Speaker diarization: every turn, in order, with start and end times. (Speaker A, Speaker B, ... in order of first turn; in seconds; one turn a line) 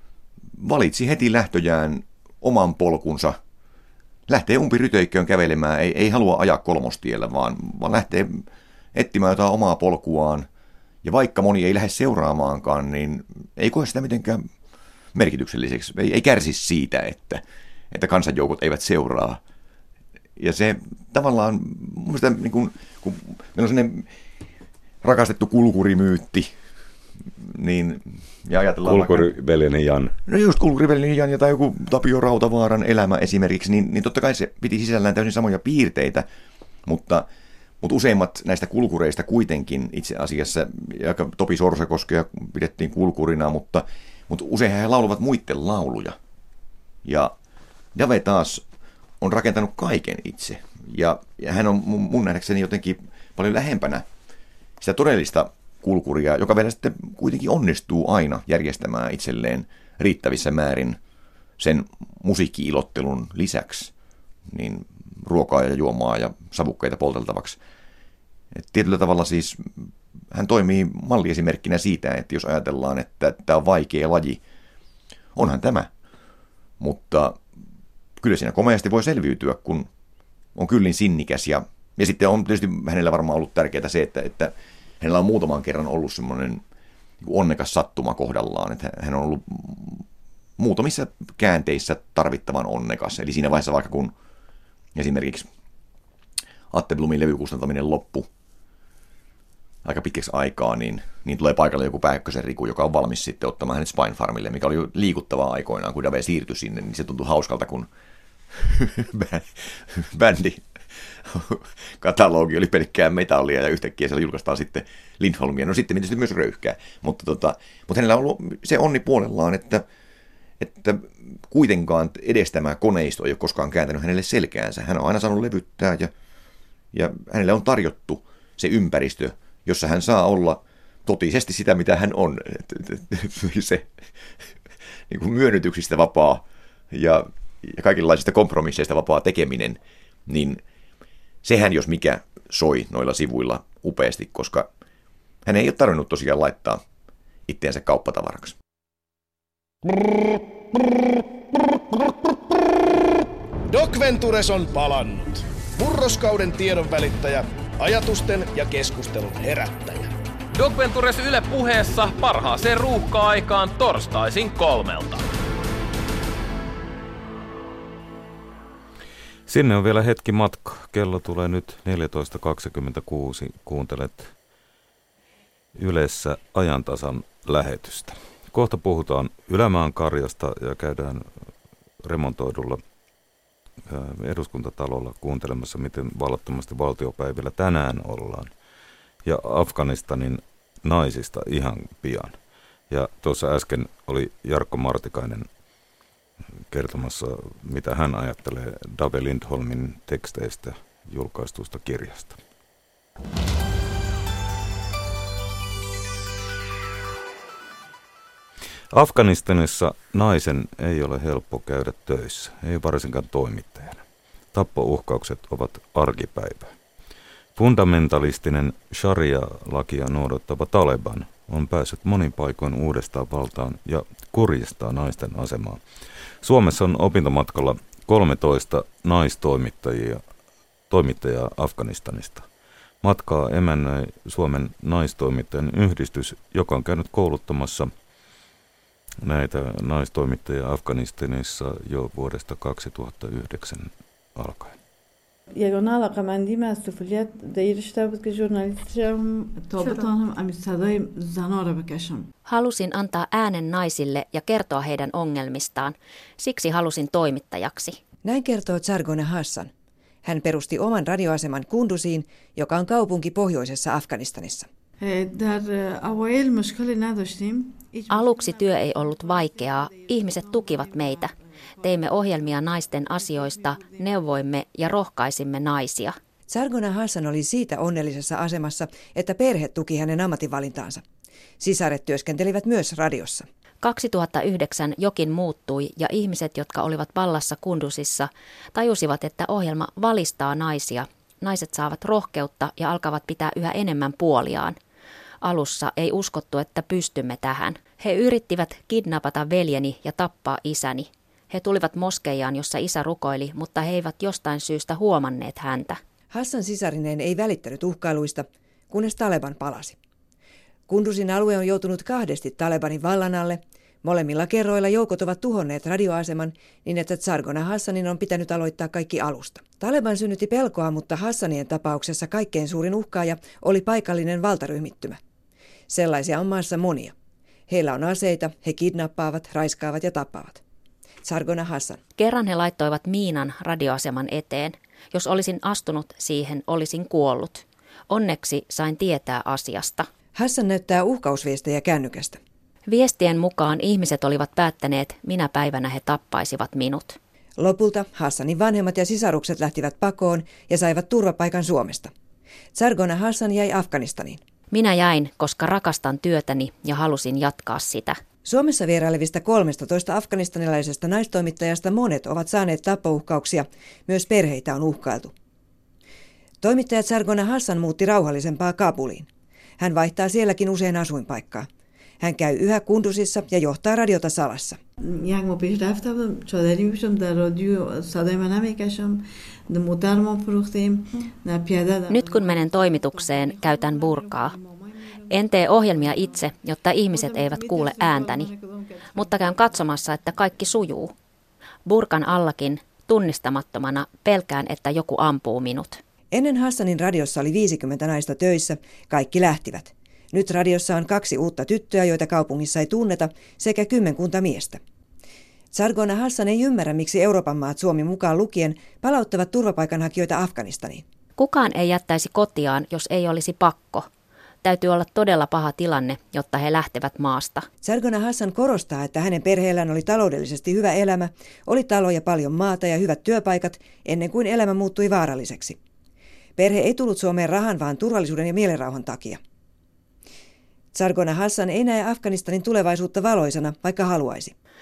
Speaker A: 0.6-3.4
Speaker A: 4.3-10.5
Speaker A: 11.0-14.5
Speaker A: 15.1-19.4
Speaker A: 20.4-24.1
Speaker A: 25.0-26.5
Speaker A: 27.4-29.3
Speaker B: 28.8-30.1
Speaker A: 30.3-36.2
Speaker A: 36.9-37.3
Speaker A: 37.8-46.2
Speaker A: 47.0-47.3
Speaker A: 47.9-48.6
Speaker A: 49.2-54.0
Speaker A: 54.8-61.0
Speaker A: 61.6-63.9
Speaker A: 64.5-67.6
Speaker A: 68.5-74.4
Speaker A: 75.3-75.9
Speaker A: 76.8-77.4
Speaker A: 78.2-79.9
Speaker A: 80.5-86.6
Speaker A: 87.2-90.0
Speaker A: 90.6-94.1
Speaker A: 94.9-95.5
Speaker A: 96.7-98.3
Speaker A: 99.8-107.9
Speaker A: 108.5-110.6
Speaker A: 111.2-119.8
Speaker A: 120.6-126.1
Speaker A: 126.9-133.9
Speaker A: 135.1-140.6
Speaker A: 141.4-144.7
Speaker A: 145.4-146.8
Speaker A: 147.5-148.6
Speaker C: 153.7-160.1
Speaker D: 160.5-165.2
Speaker B: 169.5-174.3
Speaker B: 175.7-181.4
Speaker B: 182.0-182.8
Speaker B: 183.9-188.5
Speaker B: 189.2-192.3
Speaker B: 192.9-195.5
Speaker B: 196.7-202.4
Speaker B: 208.9-216.7
Speaker B: 217.6-225.8
Speaker B: 226.4-230.2
Speaker B: 230.9-232.4
Speaker B: 233.0-237.9
Speaker B: 239.2-244.8
Speaker E: 245.5-252.3
Speaker F: 252.4-258.0
Speaker G: 258.2-259.7
Speaker G: 260.2-264.7
Speaker E: 265.0-268.5
Speaker F: 268.1-276.2
Speaker E: 269.9-270.9
Speaker E: 273.7-274.0
Speaker G: 276.5-281.0
Speaker G: 281.6-283.5
Speaker F: 283.8-294.8
Speaker F: 295.4-306.0
Speaker G: 306.3-310.0
Speaker G: 310.9-325.2
Speaker G: 325.9-327.1
Speaker G: 327.7-330.6
Speaker G: 331.2-332.0
Speaker F: 332.2-340.1
Speaker G: 340.3-342.4
Speaker F: 342.9-347.2
Speaker G: 347.6-352.1
Speaker G: 352.7-354.4
Speaker F: 354.7-358.2
Speaker G: 358.4-365.3
Speaker G: 366.6-369.3
Speaker G: 369.8-371.7
Speaker G: 372.2-374.8
Speaker E: 375.0-389.8
Speaker F: 382.1-384.6
Speaker F: 385.3-388.5
Speaker F: 389.1-391.1
Speaker F: 391.9-396.0
Speaker G: 396.3-404.8
Speaker G: 405.7-411.0
Speaker F: 411.4-414.1
Speaker F: 414.6-417.7
Speaker G: 417.8-425.8
Speaker G: 426.6-429.4
Speaker G: 430.9-434.5